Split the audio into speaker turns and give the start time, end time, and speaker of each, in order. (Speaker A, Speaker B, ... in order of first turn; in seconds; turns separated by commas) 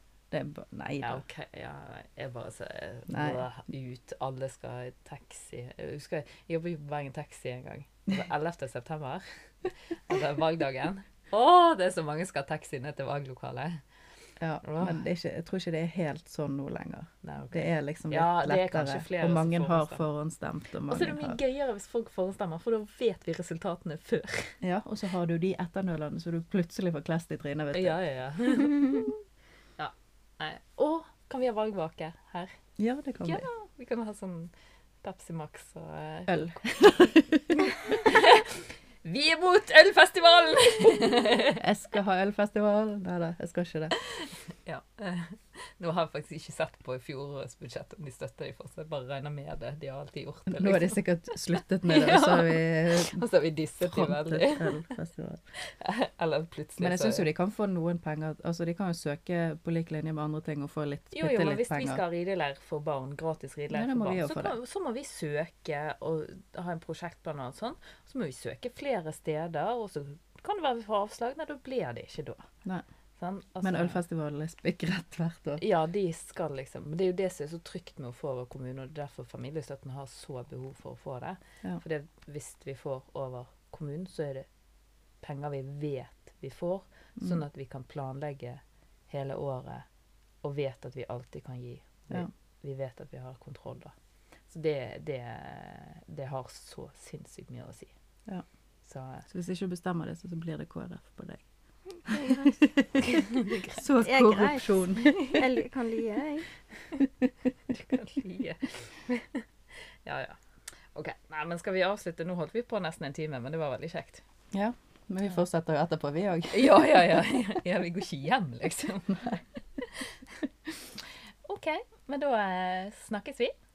Speaker A: 0.3-1.2, Speaker B: 1.0-13.8, Speaker A: 3.1-3.5, Speaker A: 14.4-21.4, Speaker B: 14.6-15.0, Speaker B: 17.2-20.0, Speaker B: 20.9-24.6, Speaker A: 24.6-28.0, Speaker B: 27.7-29.1, Speaker B: 29.8-32.5, Speaker A: 32.8-33.4, Speaker B: 33.2-34.5, Speaker B: 35.0-36.7, Speaker A: 36.3-37.6, Speaker B: 37.7-41.6, Speaker A: 41.6-44.0, Speaker B: 44.1-51.0, Speaker A: 50.5-53.2, Speaker B: 51.9-54.9, Speaker A: 53.8-55.4, Speaker B: 55.6-57.3, Speaker A: 56.8-62.0, Speaker B: 61.1-72.5, Speaker A: 63.7-64.5, Speaker B: 73.2-74.0, Speaker A: 73.6-75.6, Speaker B: 75.6-84.5, Speaker B: 85.2-89.9, Speaker B: 90.4-93.9, Speaker B: 94.5-97.9, Speaker B: 98.8-99.3, Speaker A: 99.3-101.4, Speaker C: 102.0-102.6, Speaker A: 102.0-105.4, Speaker B: 103.0-103.8, Speaker C: 104.0-106.5, Speaker A: 107.0-107.3, Speaker B: 107.7-110.4, Speaker B: 110.9-114.2, Speaker A: 114.5-117.2, Speaker B: 116.5-120.2, Speaker B: 121.4-123.5